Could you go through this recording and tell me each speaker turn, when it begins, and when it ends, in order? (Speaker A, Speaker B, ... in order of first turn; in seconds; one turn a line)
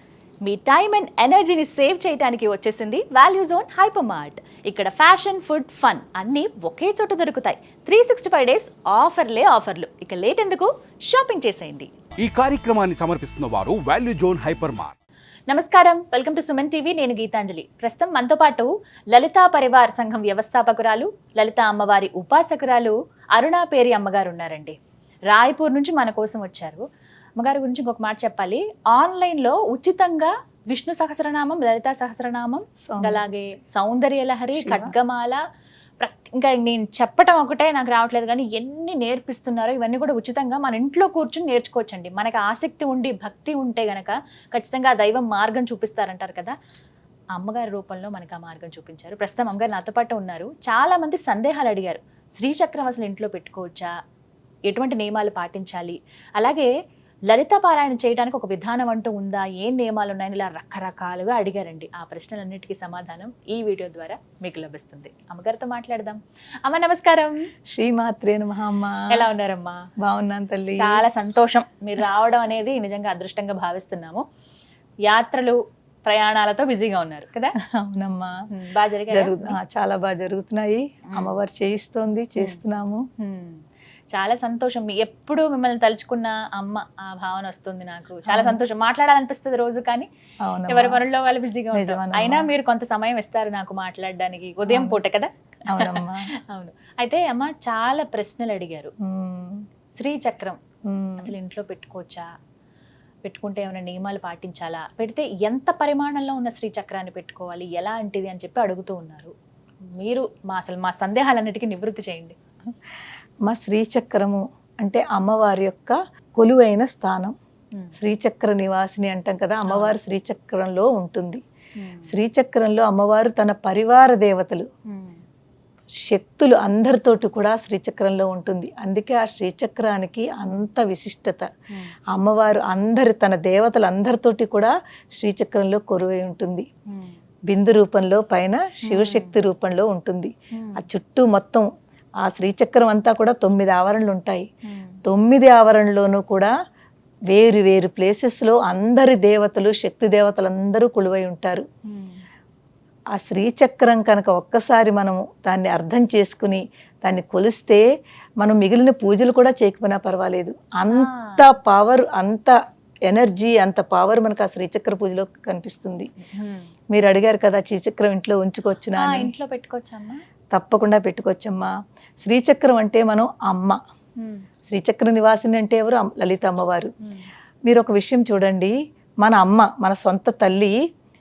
Speaker A: 0.4-11.9
Speaker B: 12.2-14.9
Speaker A: 15.5-24.8
Speaker A: 25.3-26.8
Speaker A: 27.4-35.4
Speaker C: 32.8-33.2
Speaker C: 34.5-34.9
Speaker A: 36.0-46.5
Speaker A: 47.3-53.9
Speaker A: 54.7-56.7
Speaker A: 57.3-67.5
Speaker C: 67.7-69.1
Speaker A: 69.1-69.8
Speaker C: 70.0-71.0
Speaker A: 70.8-74.2
Speaker A: 75.1-77.5
Speaker C: 77.6-78.4
Speaker A: 78.5-79.6
Speaker C: 79.1-83.0
Speaker A: 81.1-81.3
Speaker A: 83.2-83.6
Speaker A: 84.1-90.1
Speaker C: 88.3-88.6
Speaker C: 90.4-91.0
Speaker A: 90.7-98.9
Speaker C: 91.7-92.5
Speaker C: 94.7-95.0
Speaker C: 95.7-96.3
Speaker C: 99.0-99.6
Speaker A: 100.0-100.6
Speaker C: 100.9-101.3
Speaker A: 101.2-102.3
Speaker A: 103.2-109.3
Speaker A: 109.9-112.4
Speaker C: 113.5-117.3
Speaker C: 118.0-121.4
Speaker A: 119.7-119.9
Speaker A: 121.8-122.1
Speaker C: 122.1-124.7
Speaker A: 124.9-125.2
Speaker C: 126.0-131.5
Speaker C: 132.1-136.7
Speaker A: 136.9-137.2
Speaker C: 137.5-141.7
Speaker A: 138.8-139.3
Speaker A: 140.5-140.8
Speaker C: 142.2-144.5
Speaker A: 144.6-145.0
Speaker C: 145.0-146.5
Speaker C: 147.3-151.7
Speaker A: 151.8-152.2
Speaker C: 153.1-157.8
Speaker C: 158.4-162.5
Speaker A: 160.8-161.5
Speaker C: 163.1-166.1
Speaker A: 166.2-166.7
Speaker C: 166.9-169.3
Speaker A: 168.9-170.2
Speaker C: 170.5-173.8
Speaker A: 174.2-174.5
Speaker C: 174.7-176.9
Speaker A: 177.0-177.3
Speaker C: 177.7-180.8